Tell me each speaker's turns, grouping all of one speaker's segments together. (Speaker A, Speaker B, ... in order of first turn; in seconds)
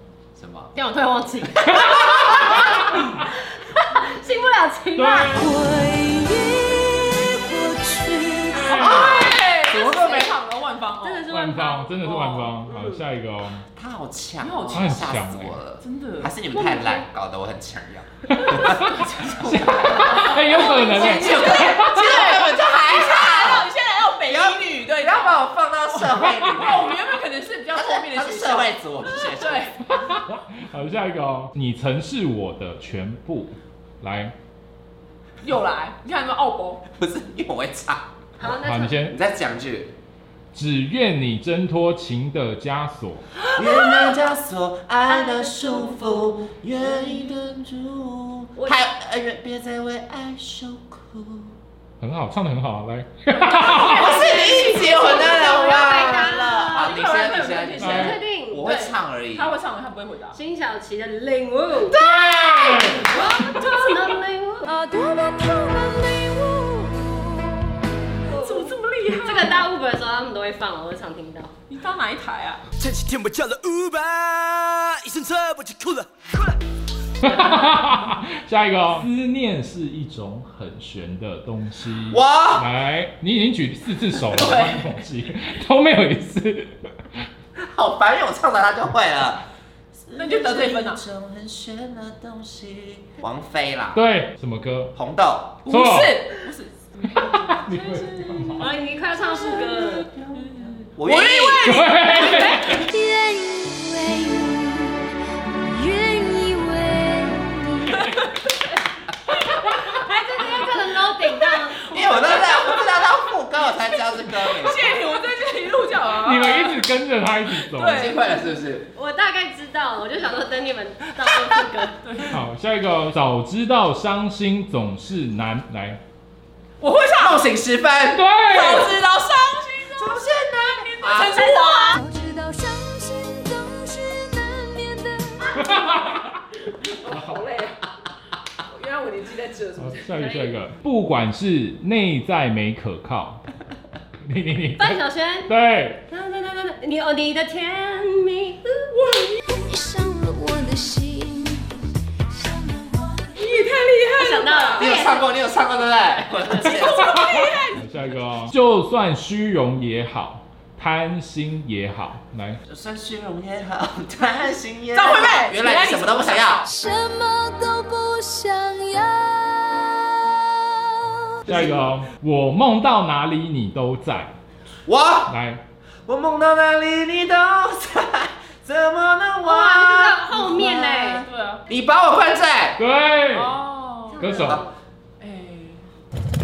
Speaker A: 0.4-0.7, 8.8-10.3, 13.8-23.7, 24.3-26.9, 27.7-29.7, 37.0-38.5, 39.1-39.9, 43.5-51.6, 53.8-59.5, 82.1-82.7, 87.6-89.4, 90.0-94.0, 95.0-95.6, 99.8-101.8, 111.9-114.9, 117.9-118.9, 127.2-128.8, 130.0-131.4, 154.8-157.1, 162.7-166.7, 174.9-175.3, 176.1-182.8
Speaker B: 0.8-5.5, 11.0-13.0, 16.5-17.1, 18.3-18.8, 20.1-21.7, 38.4-39.0, 43.5-44.2, 45.1-46.4, 48.6-48.8, 54.8-57.1, 57.8-58.7, 60.3-62.0, 63.0-64.8, 68.3-68.7, 69.2-71.5, 98.5-100.1, 109.7-112.5, 118.9-122.0, 140.2-140.6, 144.8-145.5, 146.1-148.9, 154.1-155.3, 156.3-157.0, 179.4-181.3, 184.1-184.7
Speaker C: 5.0-5.5, 8.6-9.2, 11.3-13.7, 14.7-15.5, 18.6-22.2, 29.9-34.3, 38.6-39.1, 40.5-43.3, 52.0-54.1, 57.8-58.2, 61.9-63.1, 77.2-86.8, 93.9-94.9, 95.7-96.3, 97.1-98.7, 101.7-102.8, 116.1-118.1, 122.3-126.0, 128.1-128.9, 135.6-136.3, 139.8-143.4, 144.2-146.0, 157.7-162.6, 171.5-174.3, 175.3-175.6, 182.8-183.6, 184.2-184.6
Speaker D: 5.3-9.1, 64.7-67.8, 102.1-108.0, 131.7-135.8, 149.5-153.3, 166.7-171.1
Speaker E: 8.9-11.3, 14.4-15.2, 15.8-16.3, 20.9-25.4, 25.9-29.8, 35.4-36.8, 53.3-55.3, 56.7-60.4, 63.1-63.3, 68.3-69.6, 71.7-72.6, 84.4-84.9, 90.2-91.0, 95.7-98.5, 100.5-102.4, 108.0-108.5, 109.3-116.9, 117.5-118.4, 122.0-122.4, 126.8-127.4, 128.5-132.0, 136.7-137.8, 138.7-140.0, 148.9-149.6, 153.3-154.9, 156.6-157.8, 164.9-166.7, 181.2-181.6, 183.3-184.3, 185.2-185.8
Speaker F: 72.8-76.5